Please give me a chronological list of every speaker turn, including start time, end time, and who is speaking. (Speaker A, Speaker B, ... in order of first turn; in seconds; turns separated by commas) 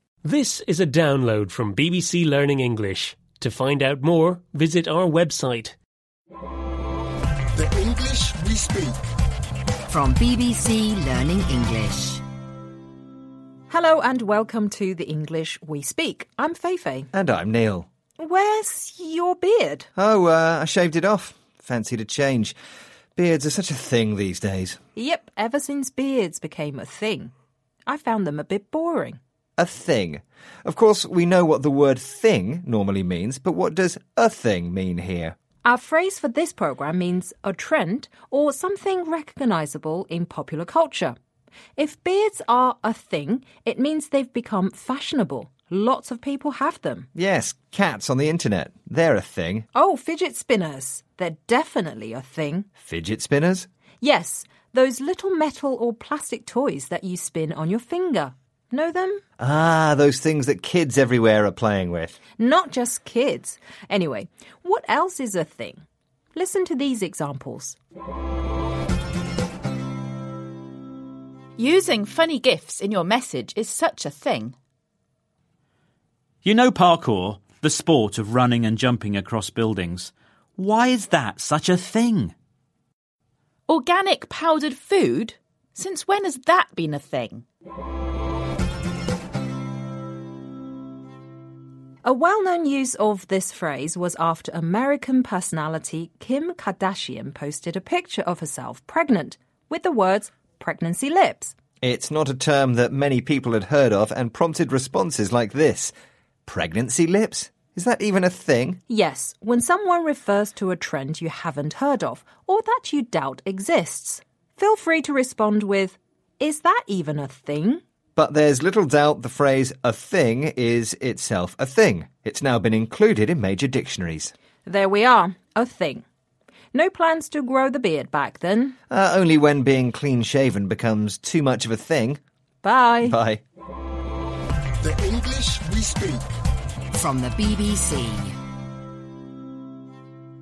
Speaker A: 0.2-5.8, Speaker B: 7.5-9.0, Speaker C: 9.9-12.2, Speaker D: 13.7-17.1, Speaker E: 17.1-17.9, Speaker D: 18.2-19.9, Speaker E: 19.9-22.5, Speaker E: 23.1-24.8, Speaker D: 24.9-27.3, Speaker D: 27.9-29.2, Speaker E: 29.6-35.3, Speaker D: 35.6-41.1, Speaker D: 41.8-47.0, Speaker E: 47.1-49.6, Speaker D: 49.7-52.6, Speaker E: 52.8-53.7, Speaker D: 54.0-59.2, Speaker E: 59.4-62.2, Speaker D: 62.4-65.8, Speaker D: 66.3-67.8, Speaker F: 71.6-74.5, Speaker G: 76.4-82.3, Speaker F: 83.7-87.4, Speaker D: 92.0-101.5, Speaker E: 101.8-105.9, Speaker E: 106.5-108.8, Speaker D: 108.9-117.8, Speaker E: 118.2-124.3, Speaker D: 124.6-126.0, Speaker D: 126.7-128.8, Speaker E: 128.9-132.2, Speaker D: 132.6-133.1, Speaker E: 133.0-133.4, Speaker B: 134.8-136.3, Speaker C: 137.0-138.3